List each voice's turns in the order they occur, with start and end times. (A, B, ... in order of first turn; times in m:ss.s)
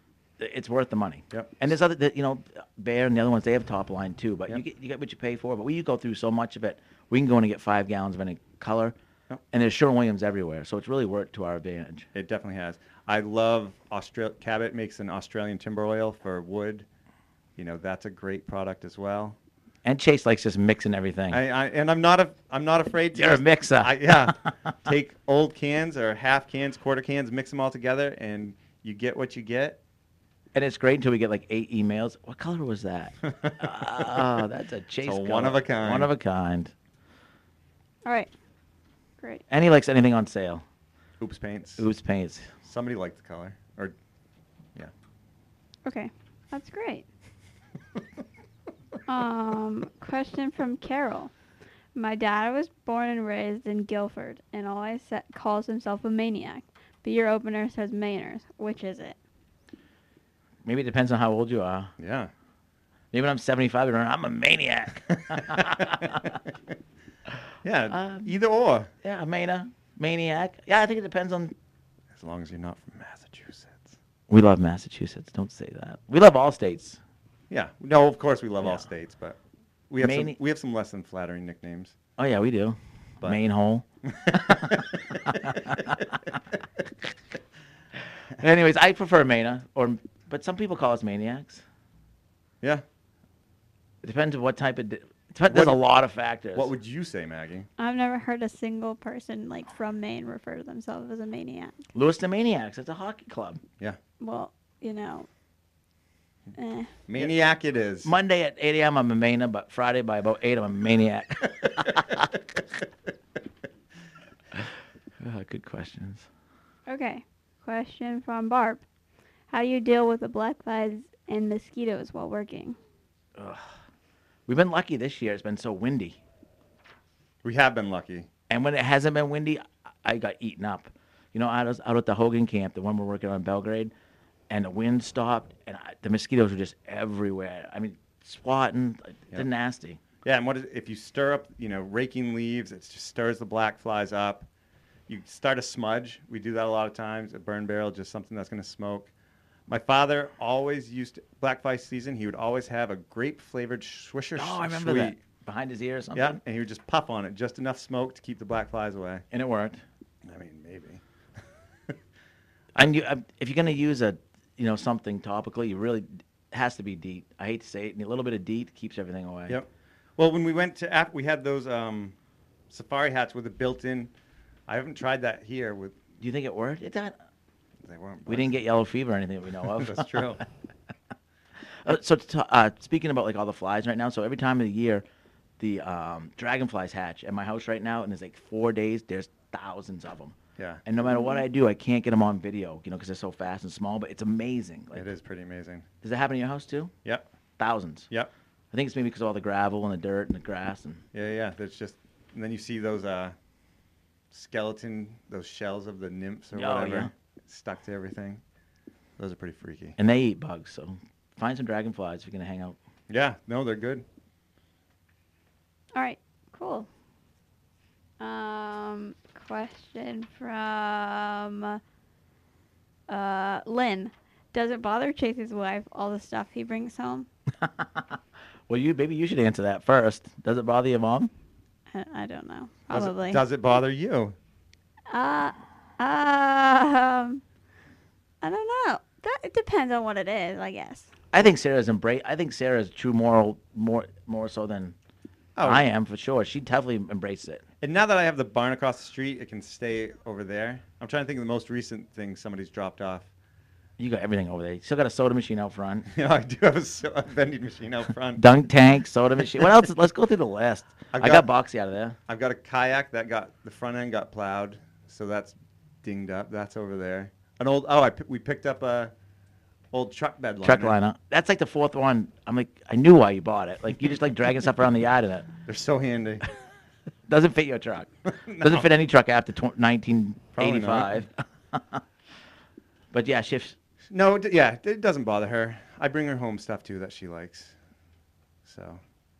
0:00.4-0:09.0 A
0:01.3-0:01.5 B
0:09.5-0:12.1 A
0:12.1-0:16.9 B
0:17.6-0:19.4 B
0:19.8-0:21.4 A
0:21.3-0:29.8 B
0:23.1-0:24.7 A
0:30.5-0:36.7 A
0:33.3-0:34.3 B
0:35.0-0:36.1 B
0:38.0-0:38.3 C
0:39.5-0:40.6 A
0:41.2-0:41.8 B
0:41.8-0:42.5 A
0:42.6-0:43.9 B
0:45.8-0:47.0 C
0:49.1-0:51.3 C
0:51.9-0:59.2 C
1:00.6-1:01.9 A
1:02.0-1:02.3 B
1:03.1-1:06.3 A
1:05.3-1:06.3 B
1:07.6-1:08.9 B
1:07.9-1:08.3 A
1:09.0-1:11.5 A
1:12.1-1:14.0 B
1:14.3-1:17.0 A
1:17.5-1:19.4 B
1:19.9-1:22.0 B
1:20.0-1:20.4 A
1:22.2-1:26.1 A
1:24.1-1:25.4 B
1:28.4-1:31.6 A
1:34.0-1:36.7 A
1:35.4-1:35.8 B
1:36.5-1:37.7 B
1:37.8-1:41.8 C
1:41.9-1:43.6 A
1:44.2-1:45.3 C
1:46.6-1:46.9 C
1:47.1-1:48.1 B
1:48.0-1:52.3 A
1:55.2-1:56.2 A
1:56.9-1:58.8 C
1:59.5-2:02.8 C
2:03.4-2:03.7 A
2:04.5-2:06.2 A
2:07.4-2:08.3 B
2:08.5-2:13.9 A
2:14.5-2:20.0 A
2:20.2-2:24.5 B
2:25.1-2:29.1 B
2:29.7-2:35.2 B
2:34.4-2:36.4 A
2:36.1-2:39.2 B
2:39.3-2:39.8 A
2:40.2-2:41.0 B
2:42.7-2:49.6 A
2:49.5-2:52.1 B
2:52.7-2:54.1 B
2:54.7-2:56.0 B
2:56.2-2:57.2 A
2:57.8-2:58.6 B
2:58.2-3:00.2 A
2:59.6-3:00.4 B
3:01.8-3:05.0 A
3:05.6-3:15.1 A
3:10.6-3:10.8 B
3:11.1-3:11.4 C
3:14.9-3:15.9 B
3:16.0-3:16.9 A
3:17.6-3:18.1 A
3:18.7-3:21.0 A
3:21.1-3:23.3 B
3:24.3-3:28.4 B
3:26.5-3:27.1 A
3:29.2-3:30.0 B
3:30.0-3:32.8 A
3:33.1-3:34.0 B
3:35.9-3:36.9 C
3:38.2-3:41.8 C
3:43.1-3:47.3 C
3:47.6-3:51.3 A
3:51.9-3:53.4 C
3:52.9-3:54.4 B
3:55.1-3:57.4 C
3:58.4-4:01.1 C
4:01.3-4:04.9 A
4:05.6-4:05.9 B
4:05.6-4:07.6 A
4:07.8-4:13.3 B
4:14.0-4:16.1 A
4:16.1-4:18.4 B
4:18.4-4:22.2 A
4:21.1-4:21.4 B
4:22.3-4:29.1 B
4:29.9-4:31.0 B
4:30.6-4:35.5 A
4:35.7-4:36.4 B
4:37.3-4:42.0 A
4:38.2-4:38.9 B
4:40.6-4:41.2 B
4:43.1-4:43.8 A
4:44.1-4:47.8 B
4:48.6-4:49.0 B